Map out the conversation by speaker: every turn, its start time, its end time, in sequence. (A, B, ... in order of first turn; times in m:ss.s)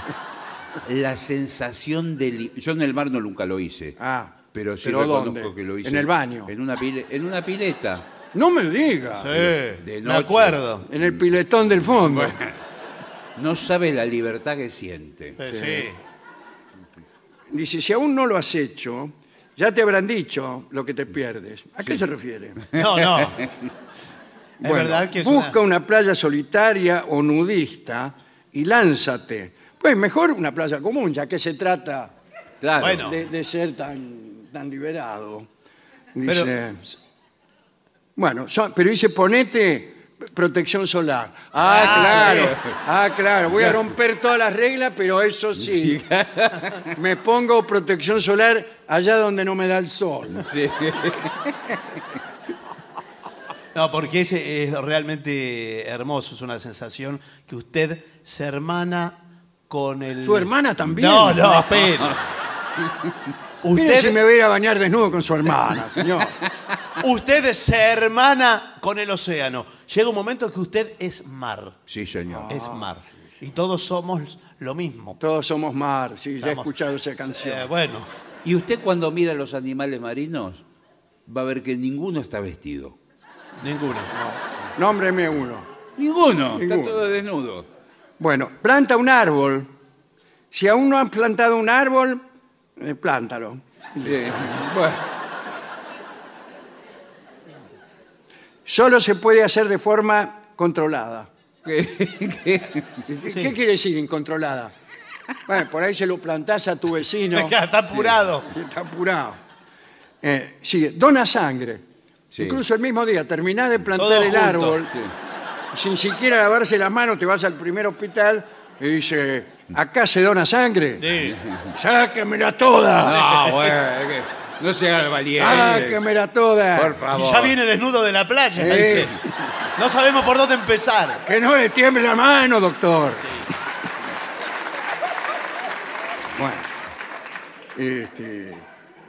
0:00.8-0:04.0 A
0:04.0-0:06.5 B
0:04.5-0:08.1 A
0:08.3-0:09.5 B
0:09.2-0:10.9 C
0:09.6-0:11.1 A
0:10.8-0:12.4 B
0:11.8-0:12.6 A
0:13.4-0:15.4 A
0:15.4-0:16.0 C
0:15.5-0:16.0 B
0:17.5-0:22.7 B
0:22.7-0:23.4 C
0:22.8-0:23.7 A
0:24.6-0:32.1 B
0:24.6-0:25.6 C
0:32.6-0:33.1 A
0:32.8-0:33.2 C
0:33.0-0:35.5 B
0:36.1-0:36.9 B
0:38.2-0:46.0 B
0:41.6-0:42.6 C
0:41.7-0:42.7 A
0:45.6-0:46.9 A
0:46.9-0:50.5 B
0:50.4-0:52.0 A
0:53.7-1:02.2 C
1:00.2-1:01.8 B
1:01.8-1:02.2 A
1:02.7-1:03.3 A
1:03.6-1:04.2 C
1:03.7-1:06.4 B
1:07.0-1:11.8 C
1:11.9-1:12.5 A
1:12.3-1:12.8 B
1:12.5-1:15.2 C
1:15.2-1:17.7 B
1:16.4-1:16.7 C
1:17.4-1:18.1 C
1:18.4-1:20.6 A
1:21.2-1:23.0 A
1:23.6-1:24.1 C
1:24.1-1:25.7 B
1:26.0-1:27.7 A
1:26.5-1:27.0 B
1:28.2-1:29.7 B
1:30.5-1:32.2 B
1:32.8-1:34.6 B
1:34.0-1:35.0 A
1:38.6-1:41.3 B
1:41.6-1:43.0 A
1:43.0-1:44.7 B
1:43.3-1:43.5 C
1:45.4-1:47.6 B
1:47.3-1:48.5 C
1:48.5-1:49.4 B
1:50.2-1:51.8 B
1:52.3-1:52.6 A
1:52.4-1:54.9 B
1:54.0-1:54.8 C
1:54.9-1:55.1 A
1:55.7-2:01.1 B
2:01.0-2:01.4 C
2:01.2-2:01.8 A
2:01.7-2:03.2 B
2:03.0-2:06.1 A
2:03.0-2:03.7 C
2:05.4-2:07.0 B
2:06.7-2:07.6 A
2:07.1-2:09.2 C
2:08.6-2:09.2 B
2:08.6-2:09.2 A
2:09.8-2:11.2 C
2:11.2-2:13.4 B
2:16.4-2:16.7 B
2:17.8-2:18.6 B